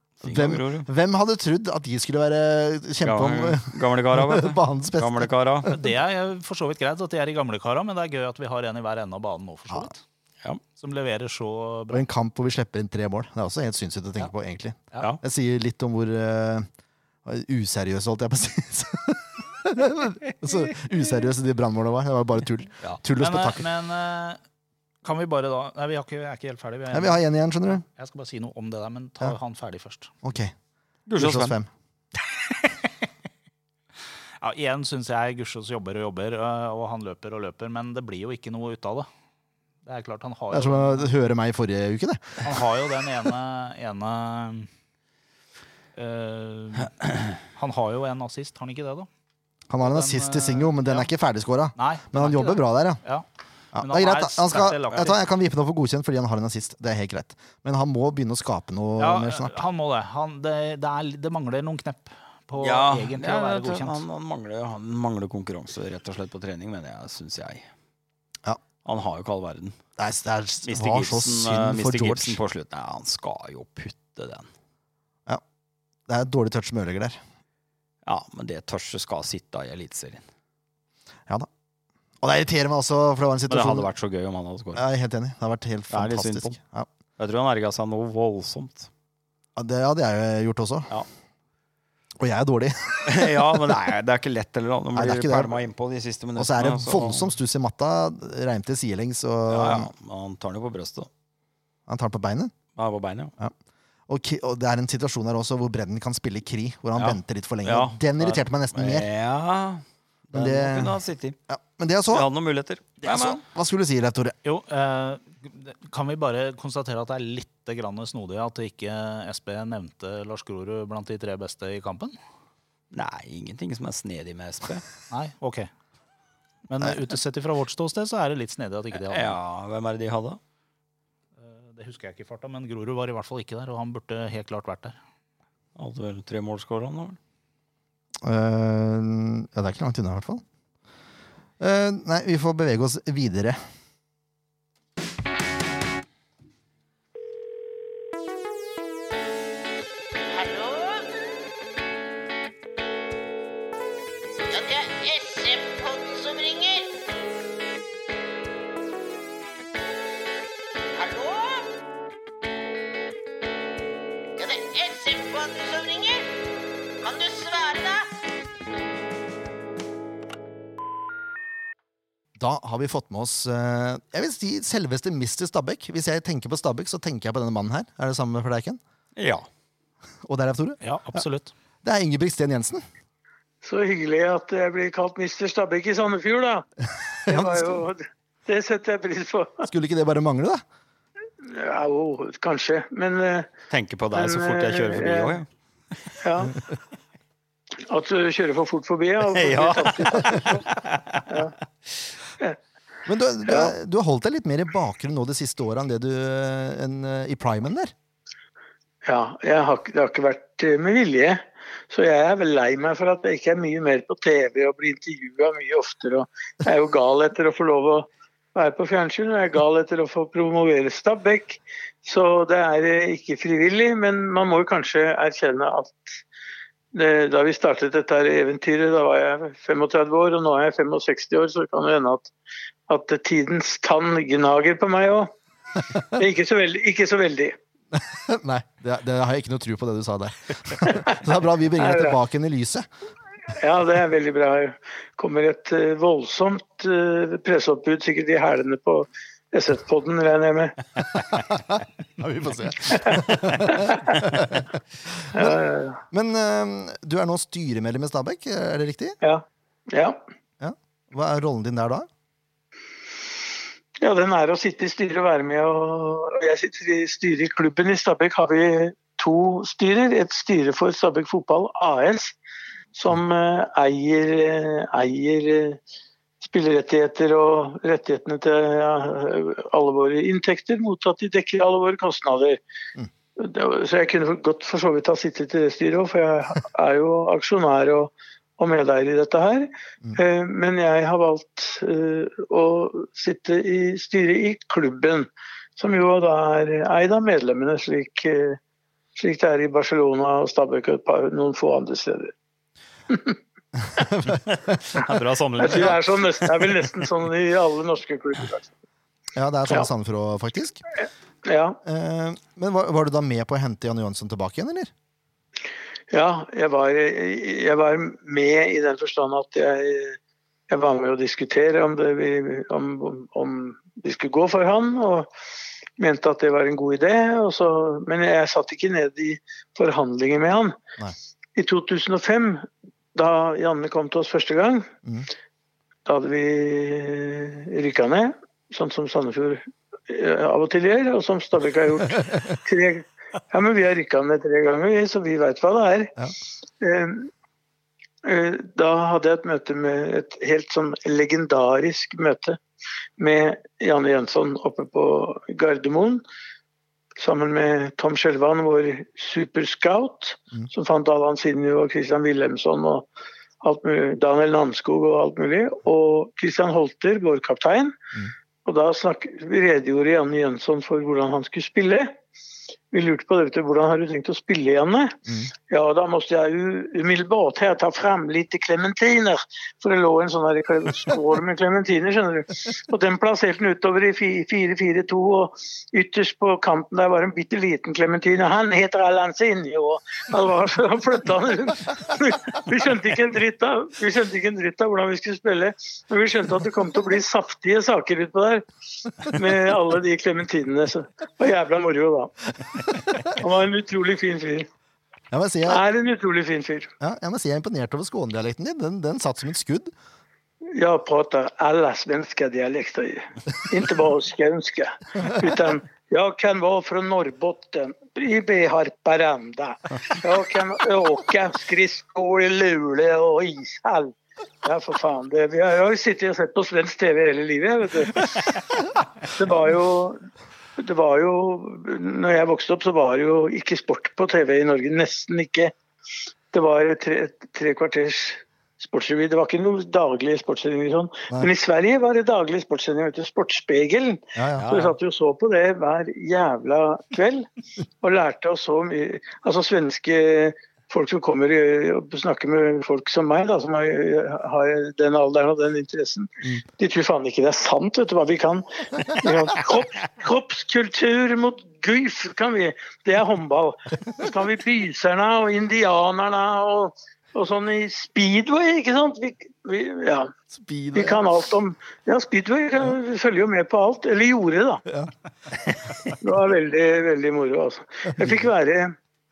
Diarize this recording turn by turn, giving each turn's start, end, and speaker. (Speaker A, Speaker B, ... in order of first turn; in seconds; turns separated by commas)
Speaker A: 0.2-0.9, Speaker B: 0.2-5.7, Speaker A: 3.0-5.7, Speaker C: 5.7-10.0, Speaker C: 10.8-12.0, Speaker B: 11.9-16.7, Speaker B: 17.2-23.6, Speaker C: 23.2-24.4, Speaker C: 25.0-27.2, Speaker B: 26.9-27.8, Speaker C: 27.9-30.1, Speaker B: 30.2-30.5, Speaker A: 31.1-31.6, Speaker B: 31.2-31.7, Speaker C: 34.4-39.1, Speaker C: 39.8-41.1, Speaker B: 40.5-42.5, Speaker C: 42.4-44.7, Speaker C: 45.9-46.9, Speaker C: 47.5-49.1, Speaker B: 49.7-53.0, Speaker C: 49.8-51.1, Speaker C: 51.8-53.2, Speaker B: 53.7-59.5, Speaker C: 53.8-55.2, Speaker C: 59.0-64.0, Speaker A: 62.6-67.7, Speaker A: 68.8-69.8, Speaker B: 70.0-72.4, Speaker A: 70.7-74.5, Speaker B: 76.1-77.2, Speaker A: 78.0-80.2, Speaker B: 82.2-83.9, Speaker A: 83.5-84.8, Speaker B: 84.7-86.9, Speaker A: 85.9-86.6, Speaker A: 87.2-88.9, Speaker B: 89.5-90.9, Speaker B: 92.2-93.6, Speaker A: 93.0-97.3, Speaker B: 94.9-95.6, Speaker B: 96.3-99.9, Speaker A: 99.5-101.1, Speaker B: 101.9-102.5, Speaker A: 102.8-103.3, Speaker B: 104.1-109.1, Speaker A: 107.0-111.3, Speaker B: 110.3-112.3, Speaker A: 112.1-113.4, Speaker B: 113.0-114.3, Speaker C: 114.4-122.1, Speaker A: 122.9-124.8, Speaker C: 125.1-125.7, Speaker C: 126.7-129.4, Speaker A: 128.9-130.4, Speaker C: 131.4-135.0, Speaker A: 135.8-137.2, Speaker B: 138.2-140.4, Speaker B: 141.6-143.6, Speaker D: 150.3-151.1, Speaker D: 154.5-157.0, Speaker D: 160.9-161.7, Speaker D: 164.3-166.3, Speaker D: 167.0-168.1, Speaker B: 172.4-178.8, Speaker A: 179.2-179.4, Speaker B: 180.2-181.2, Speaker C: 180.8-181.5, Speaker B: 181.8-182.8, Speaker E: 183.6-186.7, Speaker E: 187.2-189.7, Speaker B: 187.3-187.6, Speaker B: 189.6-190.6, Speaker E: 191.4-193.5, Speaker A: 193.7-195.5, Speaker E: 194.1-195.4, Speaker E: 196.2-196.6, Speaker E: 197.9-200.7, Speaker A: 199.2-201.4, Speaker E: 201.3-201.5, Speaker B: 203.1-207.9, Speaker E: 203.5-203.7, Speaker E: 209.0-226.2, Speaker E: 226.9-232.3, Speaker E: 232.9-235.3, Speaker E: 236.1-237.6, Speaker B: 237.9-242.8, Speaker E: 241.8-242.2, Speaker E: 243.5-250.8, Speaker B: 251.2-255.6, Speaker E: 252.9-254.2, Speaker E: 255.3-256.0, Speaker B: 256.1-259.2, Speaker E: 259.2-260.2, Speaker B: 260.6-262.1, Speaker E: 264.0-272.4, Speaker E: 272.9-275.8, Speaker E: 276.4-282.6, Speaker E: 283.4-298.6, Speaker E: 299.1-302.3, Speaker E: 303.1-303.4, Speaker B: 303.8-304.7, Speaker A: 304.3-306.9, Speaker E: 305.6-308.7, Speaker B: 309.3-310.8, Speaker E: 311.4-311.8, Speaker B: 311.8-314.9, Speaker E: 316.1-320.2, Speaker E: 320.7-325.3, Speaker E: 326.0-330.8, Speaker E: 331.6-334.9, Speaker E: 336.1-346.1, Speaker E: 346.8-347.3, Speaker E: 348.2-352.6, Speaker E: 353.2-356.2, Speaker E: 357.2-363.1, Speaker E: 363.6-368.0, Speaker E: 368.6-372.1, Speaker E: 372.9-402.3, Speaker E: 403.2-404.7, Speaker B: 405.3-405.8, Speaker E: 405.6-406.9, Speaker B: 407.0-409.9, Speaker E: 410.7-428.5, Speaker E: 429.2-430.2, Speaker E: 430.8-435.7, Speaker E: 436.5-447.5, Speaker B: 444.4-444.7, Speaker A: 444.6-444.9, Speaker E: 448.0-470.3, Speaker B: 470.5-471.2, Speaker E: 470.9-474.8, Speaker E: 476.1-478.9, Speaker B: 478.2-478.4